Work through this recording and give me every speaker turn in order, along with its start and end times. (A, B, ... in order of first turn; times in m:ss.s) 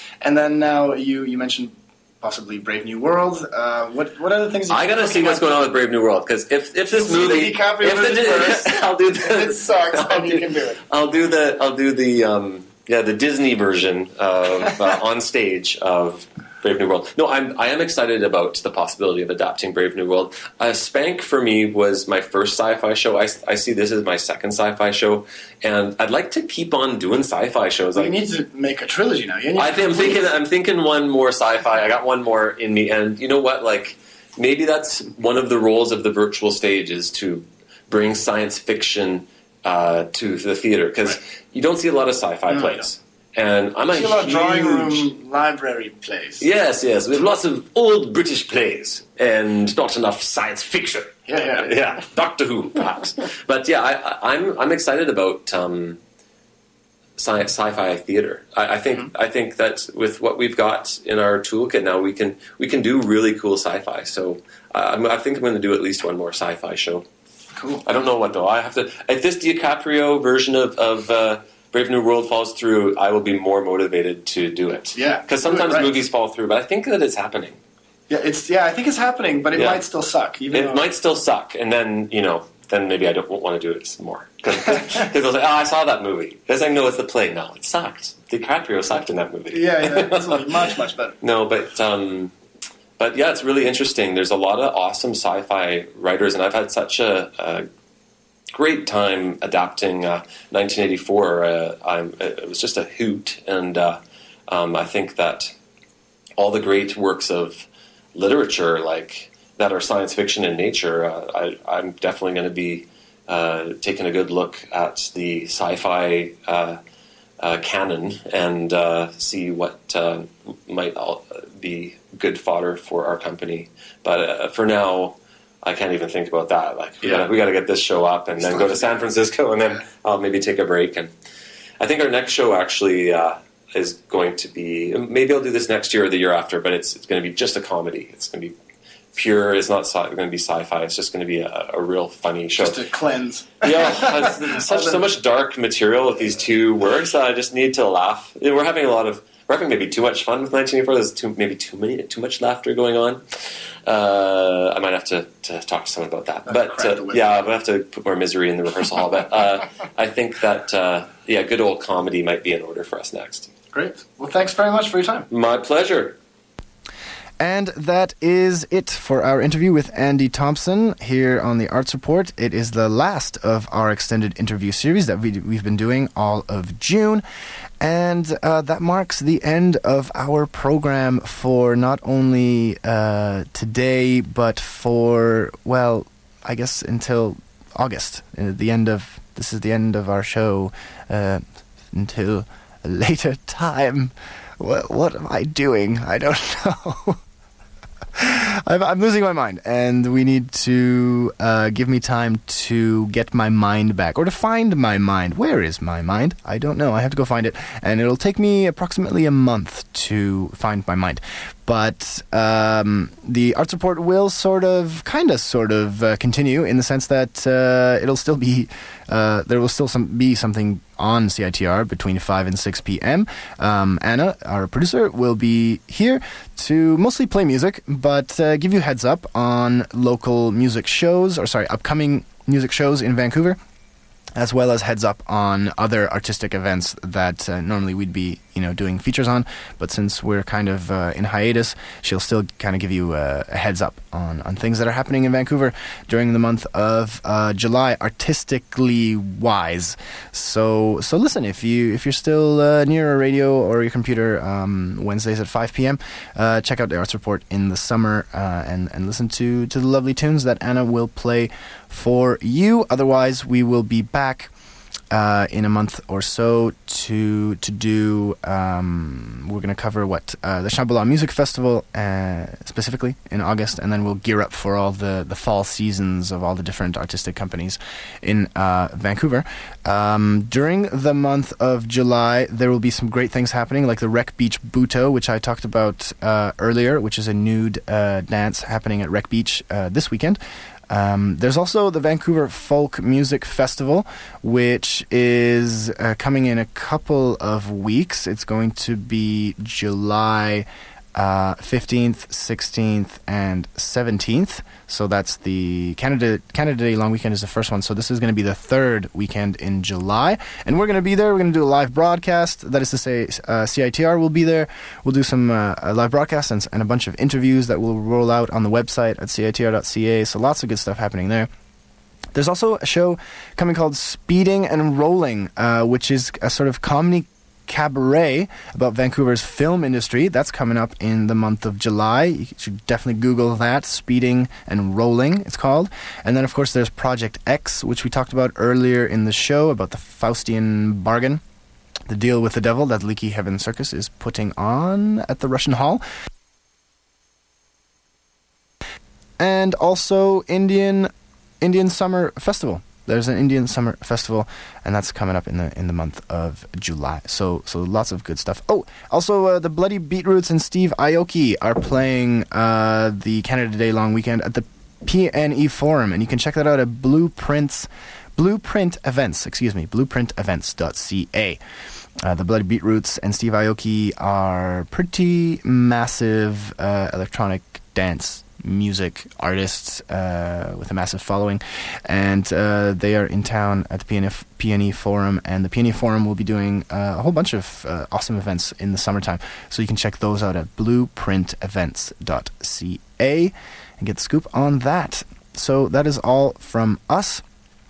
0:00.2-0:05.6 A
0:04.7-0:28.2 B
0:06.9-0:10.8 A
0:28.0-0:30.3 A
0:29.6-0:45.1 B
0:42.5-0:42.8 A
0:43.9-0:46.4 A
0:46.4-0:56.0 B
0:51.3-0:51.8 A
0:57.2-1:07.1 B
1:07.6-1:07.8 A
1:07.8-1:17.6 B
1:15.0-1:16.0 A
1:18.1-1:20.9 A
1:19.5-1:19.8 B
1:20.5-1:32.3 B
1:29.5-1:31.2 A
1:33.0-1:37.7 B
1:38.5-1:45.5 B
1:46.4-1:56.8 B
1:57.4-2:11.1 B
2:08.4-2:08.9 A
2:11.8-2:18.5 B
2:19.1-2:22.8 B
2:22.6-2:25.0 A
2:23.6-2:33.2 B
2:33.9-2:43.6 B
2:36.5-2:37.4 A
2:43.7-2:45.3 A
2:45.3-2:46.2 B
2:47.4-2:57.2 C
2:57.8-3:17.2 C
3:18.2-3:53.6 C
3:54.4-4:24.5 C
4:25.1-5:21.5 C
5:22.3-5:41.4 C
5:42.1-5:46.0 C
5:49.4-6:11.6 C
6:12.2-6:37.4 C